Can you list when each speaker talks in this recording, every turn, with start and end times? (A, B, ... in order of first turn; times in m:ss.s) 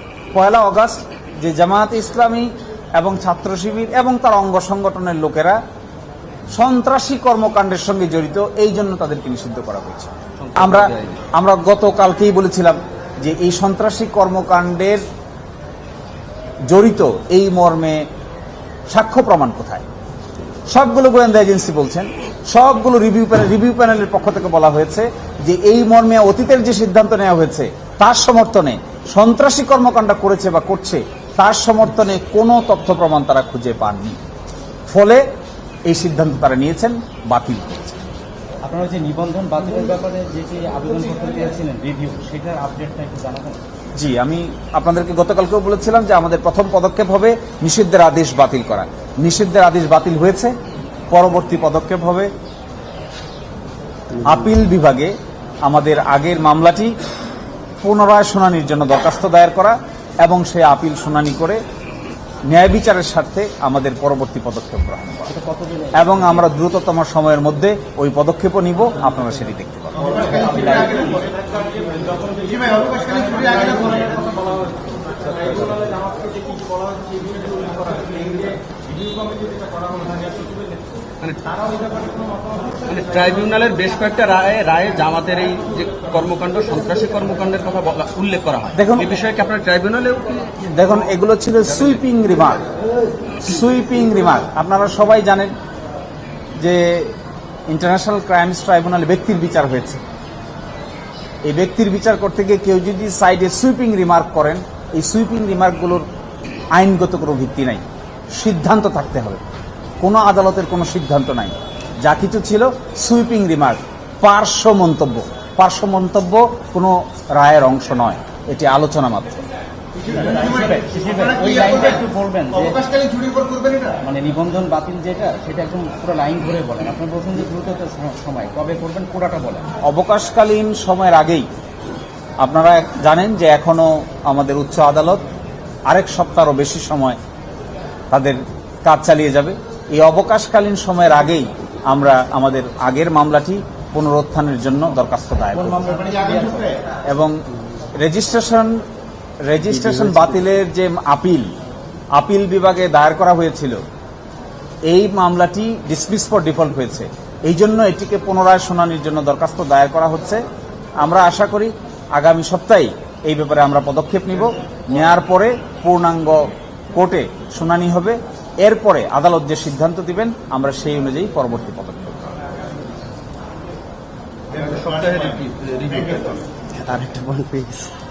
0:00.3-0:05.6 A
0:06.5-0:15.0 A
0:10.5-0:11.2 B
0:16.7-0:18.0 A
0:18.9-0:19.8 A
0:20.7-0:34.2 A
0:34.9-0:35.2 A
0:35.9-0:38.0 A
0:38.6-0:43.6 B
0:44.0-0:50.5 A
0:51.1-0:52.3 A
0:54.2-0:54.5 C
0:54.2-0:55.1 A
0:55.6-0:56.9 A
0:57.8-1:01.6 A
1:02.5-1:05.4 A
1:05.3-1:06.4 B
1:06.0-1:10.8 A
1:10.3-1:11.2 B
1:12.5-1:14.5 B
1:12.8-1:13.2 D
1:15.2-1:16.1 B
1:17.5-1:18.2 B
1:21.2-1:21.5 D
1:22.9-1:30.5 D
1:28.5-1:29.0 B
1:28.8-1:29.1 A
1:30.6-1:32.6 A
1:33.4-1:35.5 A
1:36.6-1:37.2 A
1:37.7-1:40.0 A
1:41.5-1:46.0 A
1:46.8-1:47.8 A
1:48.4-1:49.4 A
1:50.0-1:59.4 A
2:00.0-2:02.9 B
2:02.9-2:03.9 D
2:03.8-2:09.7 B
2:09.9-2:11.5 A
2:12.4-2:15.2 A
2:15.9-2:17.2 A
2:18.1-2:25.8 A
2:25.6-2:26.8 B
2:27.1-2:27.4 A
2:28.0-2:28.8 A
2:29.5-2:31.5 A
2:29.7-2:30.5 C
2:32.2-2:33.8 A
2:34.9-2:40.4 A
2:41.0-2:52.4 A
2:54.6-2:56.4 D
2:56.8-2:57.9 C